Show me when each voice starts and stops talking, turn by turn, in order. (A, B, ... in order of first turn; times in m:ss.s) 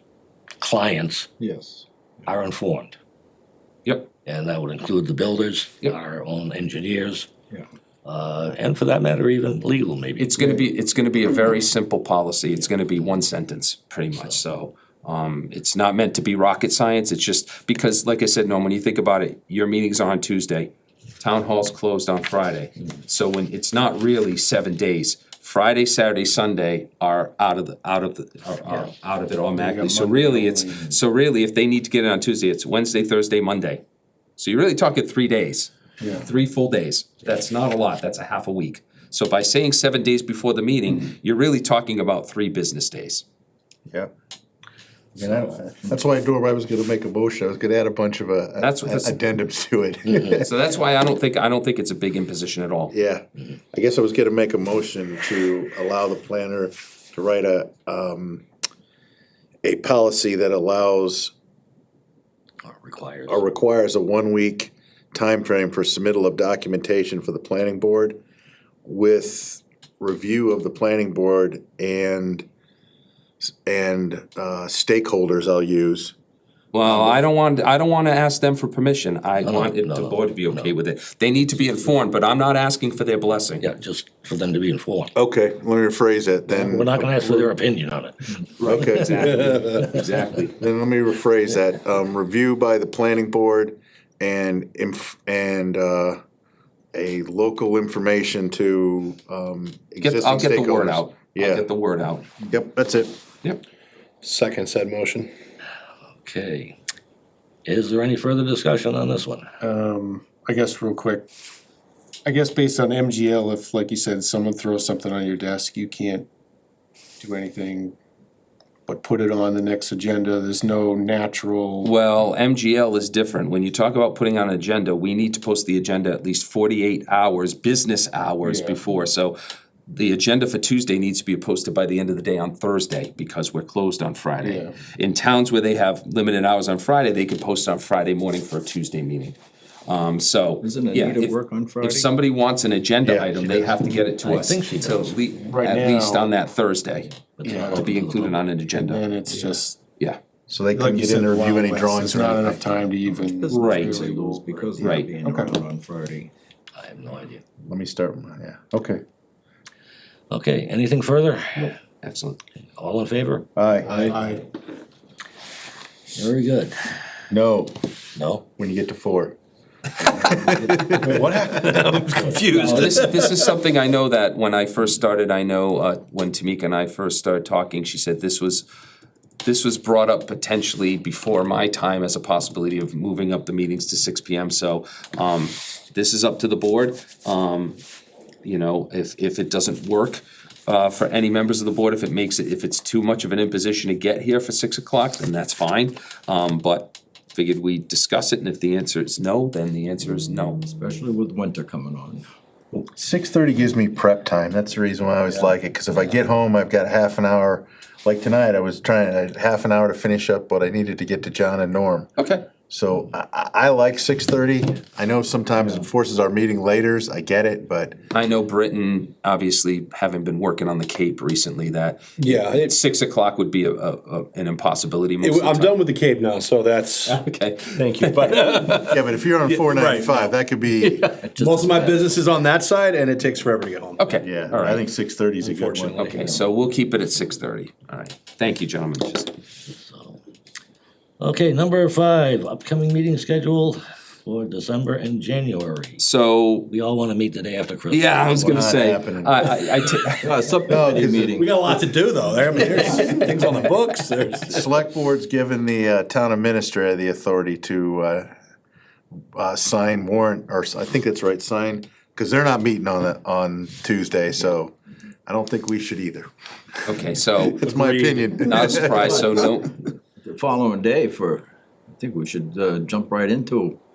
0:00.6-0:01.3 A
0:01.4-0:01.8 B
0:02.2-0:03.0 A
0:04.2-0:07.3 A
0:08.0-0:10.6 A
0:10.2-0:33.8 C
0:29.6-0:30.9 D
0:34.4-0:43.2 C
0:45.2-0:50.5 E
0:48.6-0:49.2 C
0:50.4-0:52.9 C
0:52.9-0:58.4 E
0:59.6-1:01.3 E
1:02.6-1:03.4 A
1:03.3-1:08.2 E
1:08.8-1:12.4 E
1:13.4-1:16.1 E
1:16.7-1:23.6 C
1:16.8-1:17.2 E
1:19.4-1:20.7 A
1:23.6-1:25.1 A
1:25.1-1:27.5 E
1:26.5-1:28.4 A
1:28.6-1:30.6 C
1:28.6-1:29.6 E
1:28.9-1:29.9 A
1:29.5-1:29.9 F
1:30.5-1:36.2 E
1:36.9-1:41.7 E
1:40.0-1:42.2 C
1:42.4-1:43.2 E
1:44.2-1:45.3 F
1:46.2-1:46.8 A
1:47.6-1:49.5 A
1:49.6-1:51.2 D
1:50.2-1:51.1 F
1:52.2-1:56.2 D
1:52.3-1:56.0 F
1:57.2-1:57.9 D
1:58.9-2:01.9 D
2:01.8-2:09.4 C
2:08.4-2:08.8 D
2:09.9-2:19.4 C
2:14.4-2:14.7 D
2:19.9-2:29.4 C
2:20.6-2:22.1 B
2:23.0-2:23.8 E
2:24.2-2:25.2 A
2:25.6-2:26.3 D
2:27.4-2:28.4 A
2:27.4-2:27.8 D
2:28.8-2:29.8 D
2:30.5-2:32.9 E
2:30.7-2:34.3 D
2:33.1-2:36.3 B
2:33.1-2:33.5 F
2:33.5-2:34.1 C
2:34.8-2:35.1 C
2:35.2-2:35.5 D
2:36.8-2:37.4 A
2:37.6-2:39.0 E
2:40.3-2:41.7 A
2:42.0-2:42.4 C
2:42.8-2:43.4 A
2:43.6-2:44.1 E
2:44.0-2:44.4 D
2:46.1-2:46.7 A
2:47.3-2:47.7 E
2:48.1-2:48.4 A
2:48.6-2:49.4 E
2:50.1-2:52.8 E
2:51.7-2:53.1 B
2:52.3-2:52.7 A
2:52.6-2:58.6 C
2:59.4-3:07.8 C
3:08.4-3:20.6 C
3:20.6-3:22.3 B
3:22.7-3:32.1 E
3:32.2-3:32.4 C
3:32.7-3:37.9 E
3:38.1-3:45.8 C
3:42.2-3:42.7 F
3:45.2-3:47.2 F
3:47.0-3:48.8 C
3:47.7-3:50.3 F
3:48.8-3:51.1 E
3:51.1-3:52.2 B
3:51.4-3:54.2 F
3:54.0-3:54.8 C
3:54.2-3:56.1 E
3:55.4-3:56.1 F
3:56.0-3:59.3 C
3:59.7-4:00.2 A
4:01.2-4:06.0 A
4:06.0-4:06.7 C
4:06.7-4:08.6 A
4:07.9-4:10.4 C
4:08.4-4:09.5 E
4:10.2-4:11.6 B
4:10.6-4:11.4 E
4:11.4-4:14.6 F
4:14.5-4:18.3 E
4:19.3-4:24.7 E
4:25.2-4:29.6 E
4:26.8-4:27.6 C
4:27.6-4:28.8 F
4:28.4-4:29.7 C
4:30.2-4:33.8 B